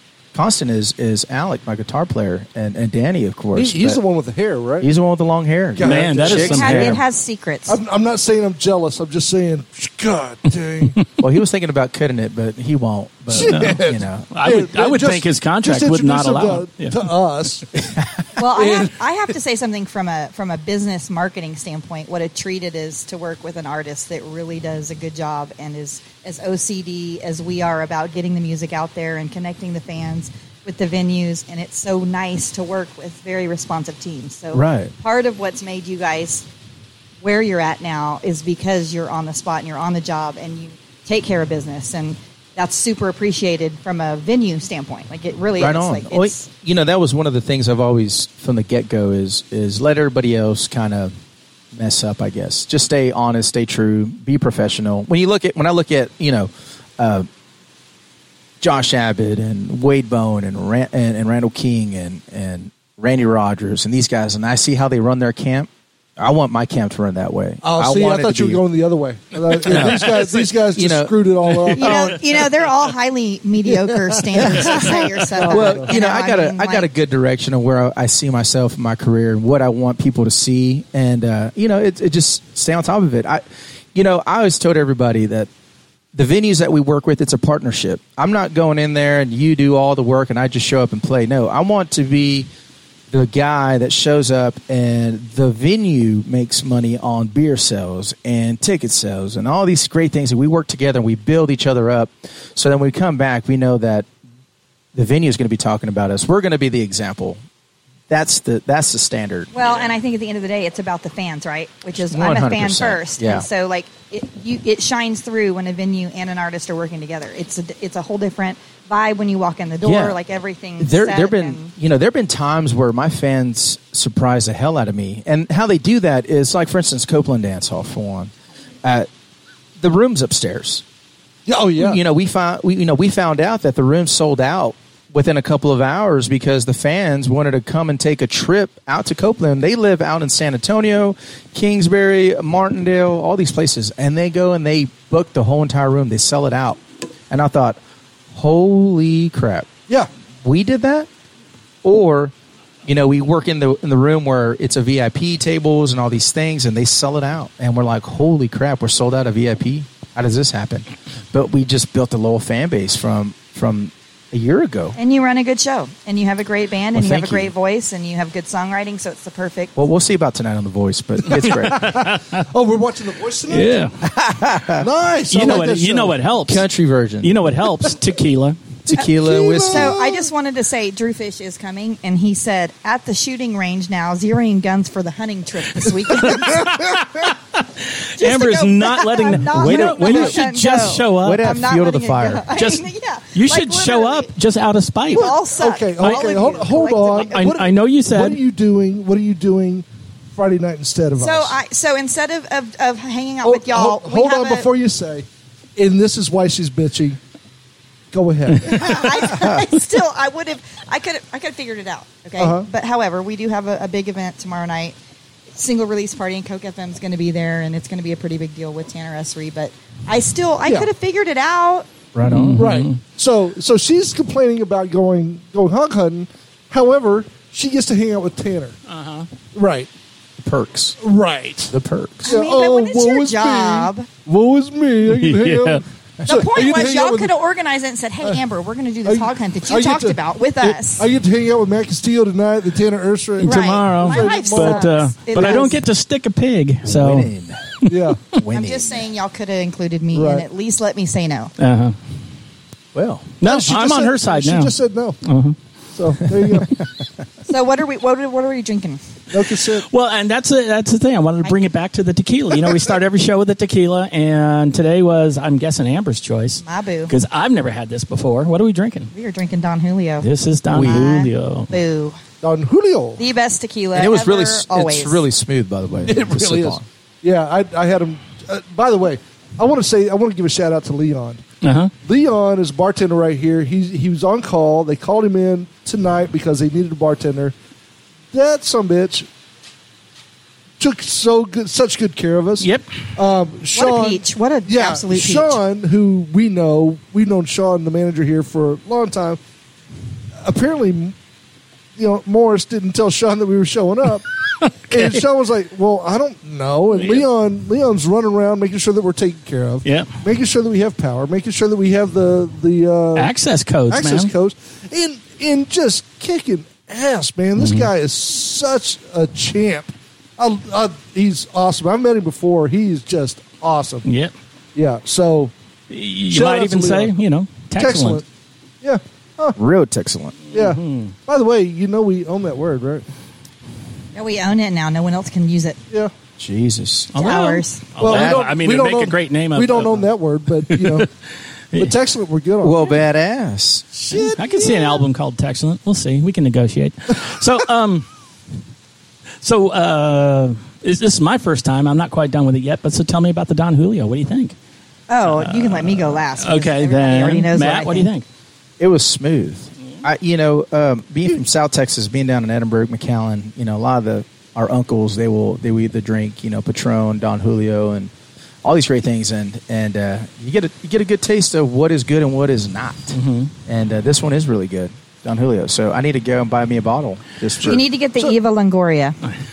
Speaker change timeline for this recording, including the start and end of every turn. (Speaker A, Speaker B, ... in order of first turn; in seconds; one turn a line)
Speaker A: 0.3-4.0
Speaker B: 3.5-4.9
Speaker A: 4.8-7.0
Speaker B: 5.8-7.0
Speaker C: 5.8-7.0
Speaker D: 6.3-7.8
Speaker B: 7.7-11.0
Speaker A: 11.2-14.3
Speaker B: 13.3-17.7
Speaker C: 13.3-17.0
Speaker A: 17.8-18.1
Speaker D: 18.4-36.5
Speaker B: 18.5-18.9
Speaker A: 34.5-34.9
Speaker D: 37.2-46.5
Speaker A: 45.6-51.1
Speaker A: 51.7-57.3
Speaker A: 58.6-68.6
Speaker B: 67.6-72.2
Speaker C: 69.5-70.5
Speaker A: 69.6-72.1
Speaker D: 71.8-76.9
Speaker B: 73.7-75.9
Speaker A: 74.4-83.4
Speaker A: 83.9-85.5
Speaker A: 86.1-92.5
Speaker A: 93.1-104.1
Speaker A: 104.9-107.4
Speaker A: 108.1-109.5
Speaker D: 109.5-121.7
Speaker A: 112.1-113.5
Speaker A: 119.8-120.2
Speaker A: 120.8-128.3
Speaker A: 129.8-130.8
Speaker B: 131.5-132.0
Speaker A: 131.8-147.8
Speaker A: 148.3-149.7
Speaker A: 150.4-151.1
Speaker A: 151.8-152.3
Speaker A: 152.8-164.9
Speaker D: 164.9-169.7
Speaker A: 166.9-167.5
Speaker A: 169.8-171.9
Speaker C: 171.3-172.4
Speaker B: 171.4-173.8
Speaker C: 173.5-173.9
Speaker A: 174.0-174.8
Speaker B: 174.8-176.2
Speaker C: 175.3-176.6
Speaker A: 176.4-177.5
Speaker C: 177.2-178.6
Speaker A: 178.8-180.0
Speaker B: 179.0-180.3
Speaker D: 179.6-186.7
Speaker C: 186.5-191.5
Speaker D: 188.2-194.3
Speaker A: 189.5-190.4
Speaker A: 191.2-192.5
Speaker C: 192.5-195.3
Speaker D: 195.1-197.4
Speaker B: 195.1-201.6
Speaker C: 196.0-196.4
Speaker C: 197.2-198.4
Speaker D: 201.2-204.7
Speaker B: 203.4-207.2
Speaker B: 208.1-209.5
Speaker D: 208.6-214.9
Speaker B: 212.4-212.7
Speaker D: 215.5-221.8
Speaker B: 220.6-220.9
Speaker A: 222.1-222.7
Speaker C: 222.2-222.9
Speaker B: 222.6-228.8
Speaker C: 228.9-229.3
Speaker B: 229.5-229.9
Speaker A: 230.4-231.0
Speaker B: 231.0-231.7
Speaker A: 231.7-232.3
Speaker D: 232.2-234.1
Speaker B: 232.2-237.3
Speaker C: 235.1-235.8
Speaker D: 236.2-241.0
Speaker B: 239.1-245.8
Speaker C: 243.4-247.3
Speaker D: 243.4-245.8
Speaker A: 246.8-247.7
Speaker B: 247.9-248.2
Speaker A: 248.3-249.0
Speaker D: 248.5-251.5
Speaker B: 250.1-250.4
Speaker C: 251.6-251.9
Speaker A: 252.9-253.4
Speaker C: 253.4-255.6
Speaker B: 253.4-255.2
Speaker B: 255.9-256.7
Speaker D: 257.5-259.0
Speaker B: 259.3-259.9
Speaker C: 259.9-269.1
Speaker D: 266.6-267.1
Speaker D: 269.1-270.2
Speaker C: 270.2-271.7
Speaker A: 270.7-271.1
Speaker D: 270.8-272.2
Speaker B: 272.4-273.2
Speaker D: 273.2-275.2
Speaker A: 273.9-276.8
Speaker B: 276.1-281.4
Speaker C: 281.6-281.9
Speaker B: 282.0-287.5
Speaker B: 288.3-289.3
Speaker B: 290.8-299.4
Speaker C: 292.6-292.9
Speaker D: 293.7-295.6
Speaker B: 300.4-301.1
Speaker B: 302.0-304.2
Speaker C: 304.6-305.2
Speaker B: 304.9-313.3
Speaker C: 306.9-307.2
Speaker C: 313.1-314.3
Speaker B: 313.9-324.1
Speaker C: 317.6-317.9
Speaker C: 324.1-324.3
Speaker B: 324.7-325.5
Speaker C: 325.9-328.2
Speaker B: 326.3-327.1
Speaker B: 327.8-328.2
Speaker B: 328.8-329.6
Speaker A: 329.6-330.4
Speaker C: 330.5-331.1
Speaker B: 330.5-333.0
Speaker D: 334.1-335.8
Speaker A: 336.4-337.2
Speaker C: 337.1-340.1
Speaker D: 337.2-337.9
Speaker B: 338.0-341.1
Speaker A: 338.0-338.5
Speaker C: 340.7-341.1
Speaker B: 341.8-342.9
Speaker A: 342.6-343.9
Speaker B: 343.9-345.0
Speaker C: 344.1-348.1
Speaker C: 349.4-354.5
Speaker D: 355.1-358.1
Speaker C: 355.2-358.2
Speaker A: 358.8-368.1
Speaker A: 368.6-377.8
Speaker C: 373.1-373.5
Speaker D: 377.6-379.1